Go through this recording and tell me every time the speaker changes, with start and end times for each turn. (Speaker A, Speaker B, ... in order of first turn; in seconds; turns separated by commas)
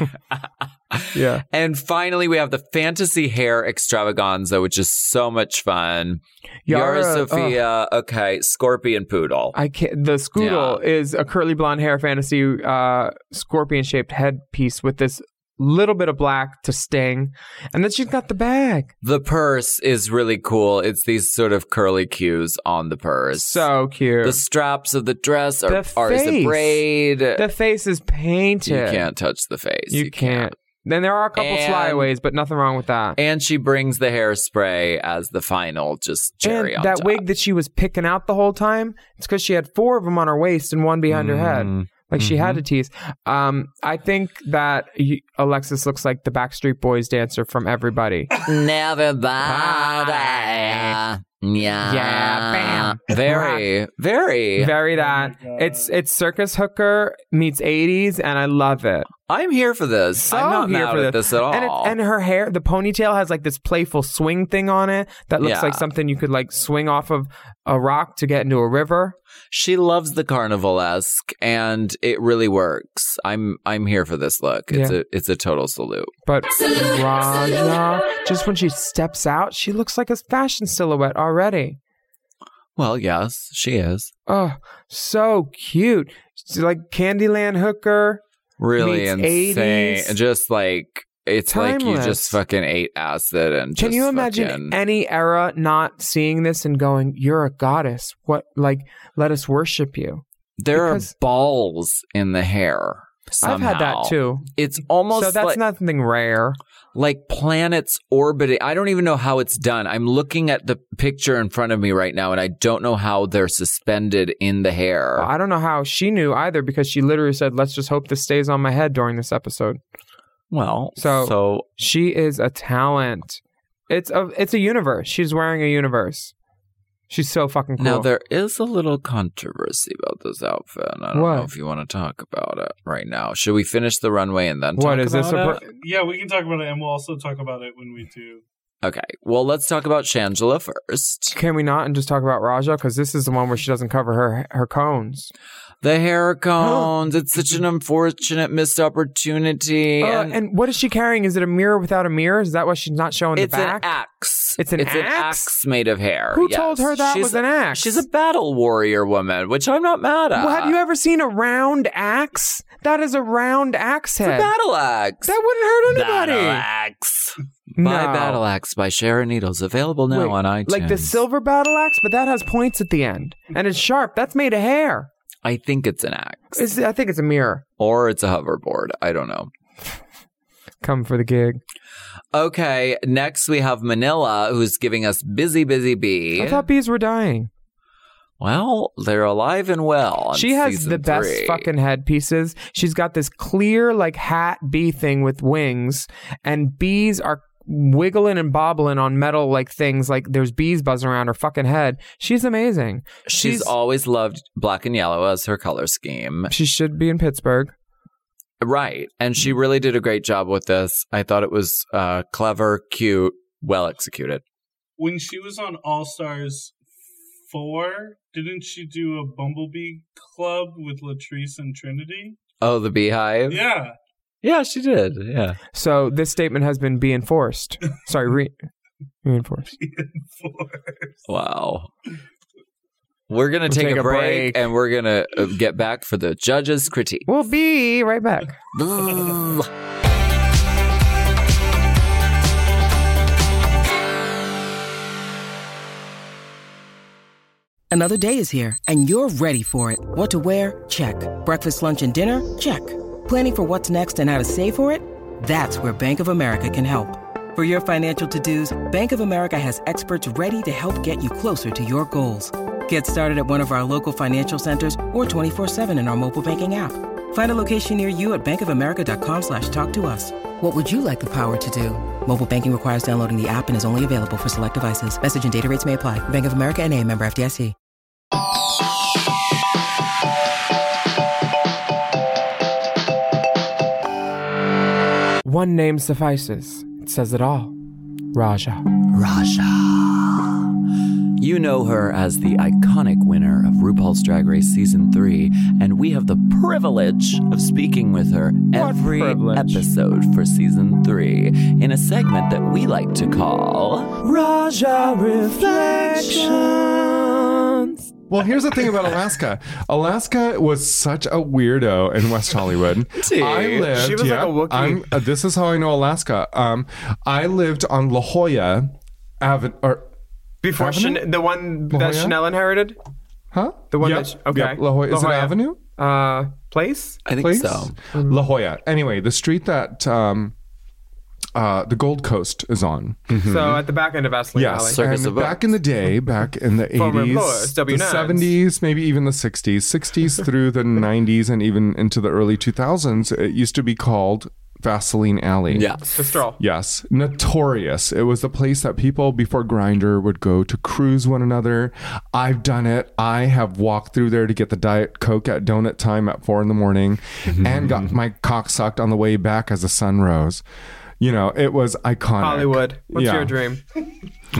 Speaker A: 0.3-9.6, Speaker B: 1.1-1.4, Speaker B: 6.7-7.6, Speaker B: 9.5-18.9, Speaker A: 10.3-10.8, Speaker A: 19.0-23.7, Speaker B: 23.3-24.4, Speaker A: 24.2-27.5, Speaker B: 25.7-29.1, Speaker A: 28.6-30.5, Speaker B: 29.9-33.2, Speaker A: 31.3-32.1, Speaker A: 33.1-37.2, Speaker B: 36.4-48.4, Speaker A: 41.1-42.6, Speaker A: 48.4-54.7, Speaker B: 49.4-51.0, Speaker B: 51.8-53.7, Speaker B: 54.6-59.1, Speaker C: 54.9-55.9, Speaker A: 59.2-62.0, Speaker B: 60.1-69.2, Speaker A: 65.4-65.8, Speaker A: 69.5-76.1, Speaker B: 74.7-75.0, Speaker B: 76.2-81.8, Speaker A: 82.8-84.1, Speaker B: 84.3-88.2, Speaker A: 88.6-94.8, Speaker B: 88.8-90.2, Speaker B: 91.5-92.4, Speaker B: 93.8-101.1, Speaker A: 100.6-105.6, Speaker B: 103.4-104.5, Speaker B: 105.1-106.6, Speaker A: 106.9-115.3, Speaker B: 115.2-119.8, Speaker A: 120.5-121.7, Speaker B: 121.0-126.3, Speaker B: 127.1-128.1, Speaker A: 127.8-135.6, Speaker B: 131.1-131.5, Speaker B: 134.8-135.6, Speaker C: 135.8-138.4, Speaker A: 138.8-141.3, Speaker B: 141.3-145.3, Speaker A: 145.8-150.4, Speaker B: 150.0-153.9, Speaker A: 153.3-160.8, Speaker B: 154.6-155.5, Speaker B: 156.3-158.0, Speaker B: 160.3-164.5, Speaker A: 164.2-165.3, Speaker B: 165.2-166.6, Speaker A: 165.9-171.2, Speaker B: 167.8-168.4, Speaker B: 170.1-175.1, Speaker A: 175.4-176.6, Speaker B: 176.5-177.6, Speaker A: 177.8-179.5, Speaker B: 180.8-181.6, Speaker A: 182.3-186.7, Speaker B: 186.3-187.5, Speaker A: 188.4-191.7, Speaker B: 190.3-203.7, Speaker A: 203.2-206.5, Speaker B: 206.5-207.7, Speaker A: 208.6-214.4, Speaker C: 215.0-216.8, Speaker C: 217.5-222.3, Speaker A: 222.6-223.6, Speaker C: 223.5-223.9, Speaker A: 224.4-225.6, Speaker B: 225.7-228.5, Speaker B: 229.2-229.8, Speaker C: 229.8-231.2, Speaker A: 231.3-231.9, Speaker A: 233.3-237.3, Speaker B: 233.7-234.6, Speaker B: 237.2-238.6, Speaker A: 238.7-239.7, Speaker D: 247.9-277.7, Speaker B: 285.4-287.7, Speaker B: 288.3-288.8, Speaker A: 289.1-290.6, Speaker A: 291.3-307.3, Speaker B: 298.7-299.8, Speaker B: 304.3-308.1, Speaker E: 308.3-320.1, Speaker A: 313.1-313.9, Speaker B: 313.8-315.2, Speaker B: 320.6-323.0, Speaker E: 320.7-321.3, Speaker E: 321.9-322.4, Speaker E: 323.5-325.8, Speaker B: 323.9-327.2, Speaker A: 327.2-327.9, Speaker E: 327.4-330.5, Speaker B: 328.1-328.4, Speaker E: 331.5-333.8, Speaker B: 333.4-335.0, Speaker E: 334.5-345.9, Speaker A: 334.9-335.8, Speaker B: 336.9-338.6, Speaker A: 345.7-346.0, Speaker B: 346.0-346.6, Speaker E: 346.6-360.6, Speaker E: 361.2-363.6, Speaker B: 362.4-363.8